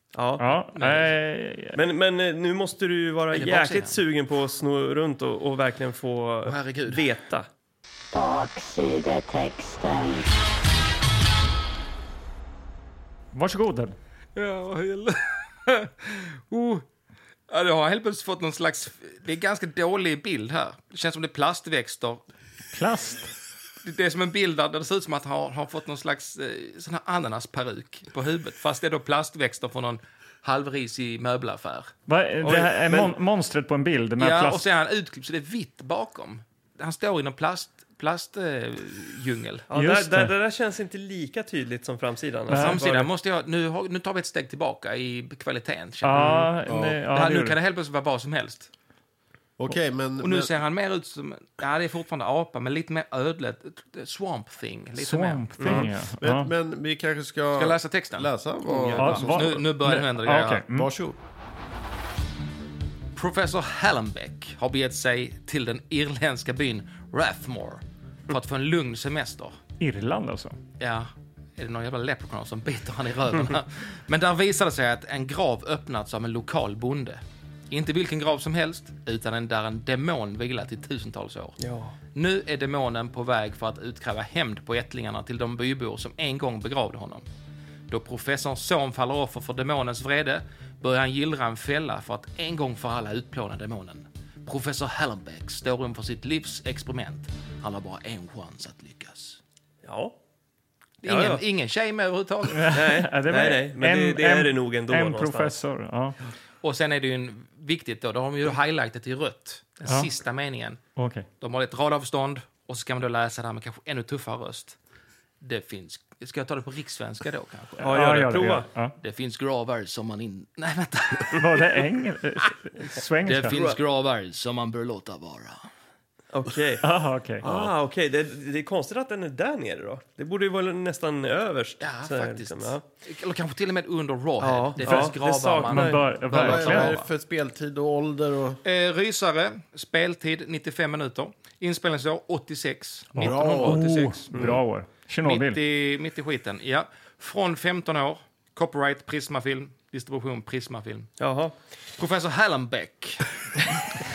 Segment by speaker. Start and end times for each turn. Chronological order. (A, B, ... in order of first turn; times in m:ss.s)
0:00.1-0:00.5 A
0:00.4-0:01.8 B
0:00.7-0:01.1 C
0:01.7-0:07.5 A
0:03.3-0:04.0 C
0:06.4-0:07.0 C
0:08.1-0:10.3 D
0:13.3-0:14.0 B
0:14.4-0:16.8 C
0:17.5-0:22.2 C
0:22.7-0:23.3 B
0:23.8-0:31.9 C
0:32.1-0:34.6 B
0:32.4-0:33.1 A
0:34.2-0:39.6 C
0:39.7-0:43.1 A
0:39.7-0:40.3 B
0:42.5-0:42.8 B
0:42.5-0:46.5 C
0:46.0-0:47.6 B
0:46.1-0:46.5 A
0:46.6-0:47.0 E
0:47.1-0:48.7 C
0:49.6-0:50.5 E
0:50.2-0:55.8 C
0:55.0-0:56.5 B
0:55.6-0:55.9 A
0:56.2-0:59.6 E
0:57.5-1:00.6 C
0:59.0-1:00.9 B
1:00.7-1:01.2 E
1:03.2-1:09.6 C
1:09.8-1:10.6 B
1:10.8-1:21.6 C
1:21.6-1:22.0 A
1:22.1-1:27.2 C
1:27.9-1:39.4 C
1:39.8-1:40.1 A
1:41.0-1:42.7 C
1:41.0-1:41.4 A
1:42.5-1:46.2 B
1:42.7-1:45.6 A
1:46.6-1:50.8 C
1:51.0-1:51.3 B
1:51.4-1:54.8 C
1:55.4-1:58.0 C
1:57.8-1:58.7 A
1:57.8-1:58.9 B
1:59.0-2:01.6 C
2:01.4-2:03.7 B
2:03.2-2:05.7 C
2:06.3-2:06.9 A
2:06.8-2:07.7 B
2:07.4-2:12.8 A
2:11.8-2:17.1 C
2:14.4-2:16.1 A
2:15.7-2:16.9 B
2:16.3-2:18.6 E
2:18.6-2:24.6 C
2:23.1-2:25.6 B
2:23.2-2:24.1 E
2:24.3-2:24.6 A
2:25.2-2:31.1 C
2:31.2-2:31.5 A
2:32.0-2:33.6 C